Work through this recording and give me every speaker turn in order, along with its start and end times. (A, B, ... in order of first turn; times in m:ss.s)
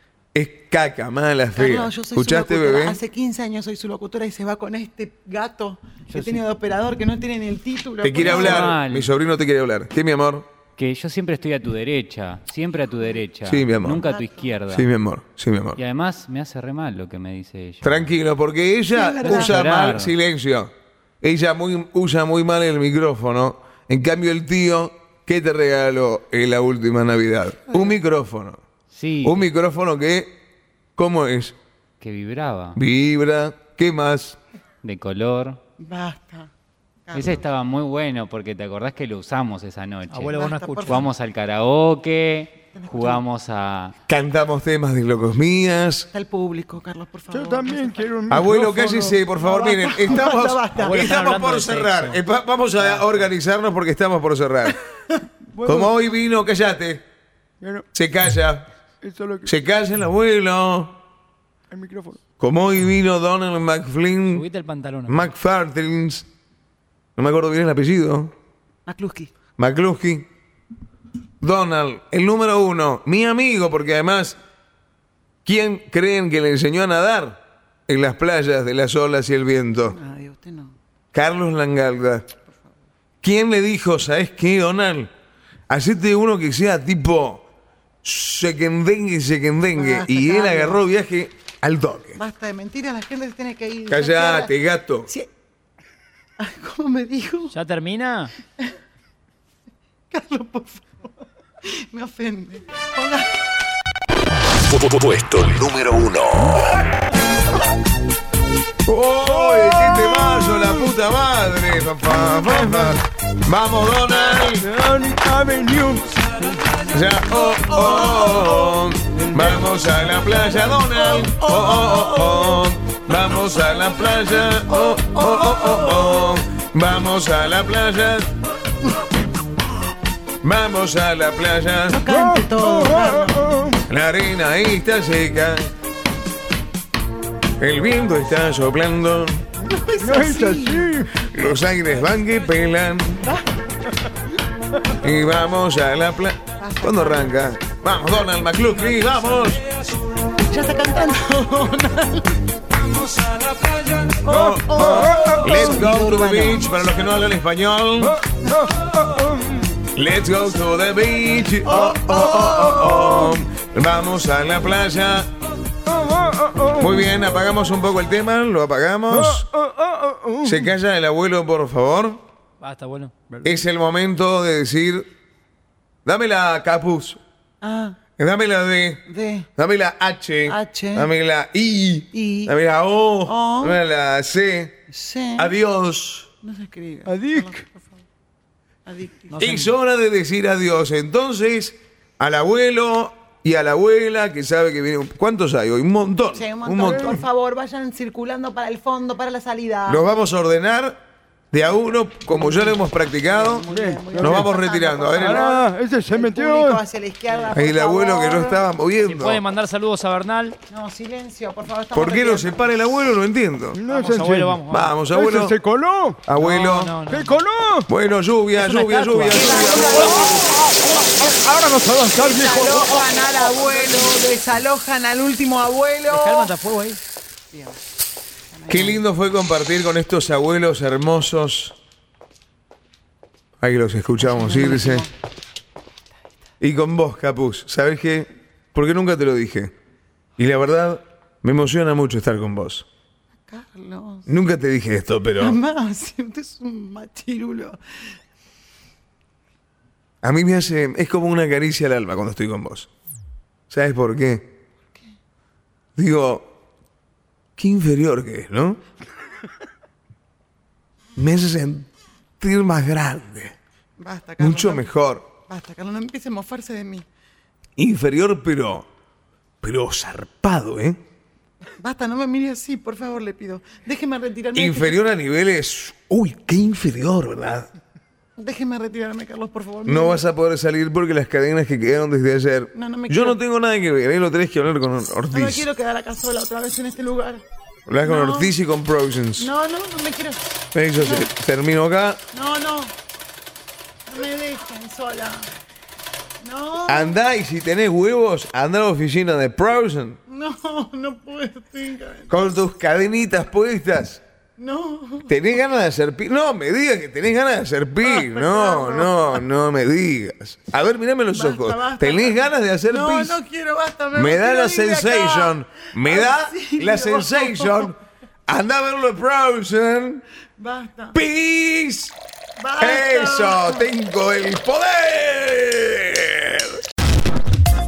0:00.3-0:03.0 A
0:01.6-0:08.7 B
0:08.0-0:10.5 A
0:08.2-0:09.1 C
0:10.8-0:14.9 C
0:13.5-0:14.1 A
0:13.9-0:14.5 B
0:14.7-0:15.8 A
0:15.8-0:18.1 C
0:17.8-0:28.6 A
0:18.9-0:19.6 B
0:19.2-0:20.1 C
0:28.9-0:29.4 C
0:29.2-0:30.4 A
0:31.0-0:31.6 A
0:32.0-0:32.8 C
0:32.8-0:34.4 A
0:34.8-0:35.6 C
0:35.8-0:36.5 B
0:37.1-0:37.4 B
0:37.1-0:44.0 C
0:40.1-0:41.1 D
0:40.3-0:41.1 B
0:42.8-0:43.2 B
0:44.1-0:46.1 A
0:46.1-0:48.0 B
0:47.3-0:49.2 E
0:48.3-0:54.8 A
0:49.4-0:51.0 B
0:50.8-0:52.2 D
0:52.8-0:53.1 D
0:55.5-0:55.9 E
0:55.6-0:57.0 A
0:57.6-0:57.9 E
0:57.9-0:58.7 A
0:59.0-0:59.5 E
0:59.5-1:01.0 A
1:01.7-1:02.2 E
1:02.4-1:04.5 A
1:04.3-1:05.2 D
1:05.1-1:06.3 A
1:07.2-1:08.3 A
1:08.9-1:09.3 B
1:09.6-1:10.3 A
1:11.4-1:14.4 A
1:15.4-1:20.0 A
1:19.9-1:20.7 B
1:21.1-1:22.3 A
1:23.2-1:25.1 A
1:25.7-1:27.4 A
1:28.0-1:32.2 A
1:29.8-1:30.8 B
1:32.2-1:34.5 B
1:33.9-1:35.1 A
1:36.4-1:37.5 B
1:37.5-1:38.3 D
1:40.1-1:41.1 B
1:41.6-1:43.3 B
1:44.6-1:46.7 F
1:48.9-1:54.6 A
1:49.2-1:50.9 E
1:52.1-1:53.0 E
1:54.6-1:56.9 E
1:56.9-2:08.3 A
1:59.1-1:59.6 E
2:01.0-2:02.5 B
2:04.7-2:06.3 B
2:10.4-2:12.0 A
2:11.9-2:13.6 B
2:12.1-2:13.8 E
2:13.9-2:15.7 A
2:17.6-2:19.4 A
2:19.6-2:20.9 B
2:20.0-2:21.1 E
2:21.2-2:23.2 A
2:25.0-2:29.6 A
2:26.6-2:27.4 B
2:30.5-2:32.4 B
2:34.2-2:36.7 B
2:34.3-2:38.2 A
2:34.3-2:35.7 E
2:38.0-2:39.7 E
2:40.0-2:45.3 A
2:41.6-2:43.3 B
2:45.9-2:47.1 E
2:46.8-2:49.5 A
2:49.1-2:50.7 E
2:50.4-2:52.2 A
2:52.6-2:53.1 D
2:53.4-2:55.1 A
2:56.1-2:57.2 A
2:57.6-2:58.0 B
2:58.2-2:59.0 A
2:59.1-2:59.5 B
2:59.6-3:04.8 A
3:00.5-3:01.1 B
3:02.1-3:02.5 B
3:03.3-3:03.8 B
3:04.9-3:05.5 B
3:05.4-3:06.3 A
3:06.4-3:07.9 B
3:07.1-3:07.6 E
3:08.9-3:09.5 B
3:09.3-3:09.7 D
3:09.4-3:17.2 A
3:16.3-3:20.0 B
3:16.8-3:17.2 E
3:19.9-3:21.0 A
3:21.5-3:23.6 A
3:23.3-3:28.6 B
3:23.6-3:24.5 E
3:24.2-3:25.5 A
3:25.1-3:26.8 E
3:27.5-3:29.4 A
3:29.0-3:30.6 D
3:30.7-3:32.8 B
3:31.9-3:33.8 A
3:33.8-3:36.3 E
3:33.9-3:34.9 D
3:34.7-3:35.5 A
3:36.3-3:36.9 A
3:36.4-3:37.4 D
3:37.0-3:37.9 E
3:37.9-3:40.4 A
3:38.6-3:39.7 D
3:39.3-3:40.5 B
3:40.4-3:44.1 E
3:42.1-3:46.6 B
3:46.1-3:47.0 D
3:47.5-3:47.8 B
3:48.5-3:49.0 B
3:48.7-3:51.8 A
3:53.6-3:55.1 A
3:54.2-3:55.1 B
3:56.6-3:59.7 A
4:00.4-4:02.9 A
4:03.5-4:04.3 B
4:04.3-4:05.6 A
4:05.4-4:07.8 B
4:10.2-4:12.9 A
4:13.7-4:14.5 A
4:16.0-4:16.5 A
4:17.6-4:18.8 A
4:21.2-4:21.9 A
4:22.4-4:23.6 A
4:24.0-4:24.9 B
4:24.4-4:25.3 A
4:25.5-4:27.0 B
4:27.8-4:28.9 A
4:29.6-4:31.0 A
4:31.8-4:35.0 B
4:34.6-4:37.7 A
4:38.4-4:40.2 B
4:39.9-4:45.6 A
4:42.7-4:43.4 B
4:45.3-4:47.4 B
4:47.9-4:49.5 A
4:48.0-4:48.5 B
4:49.4-4:50.4 B
4:50.7-4:52.2 A
4:51.0-4:51.3 B
4:52.3-4:52.9 B
4:54.1-4:55.5 B
4:56.4-4:57.1 B
4:56.9-5:00.2 A
5:00.3-5:02.4 B
5:02.3-5:04.2 A
5:04.6-5:05.3 B
5:05.3-5:13.4 A
5:08.0-5:09.3 B
5:11.3-5:17.9 B
5:14.1-5:20.2 A
5:20.6-5:21.2 B
5:21.1-5:22.1 A
5:22.6-5:23.9 B
5:22.8-5:26.8 A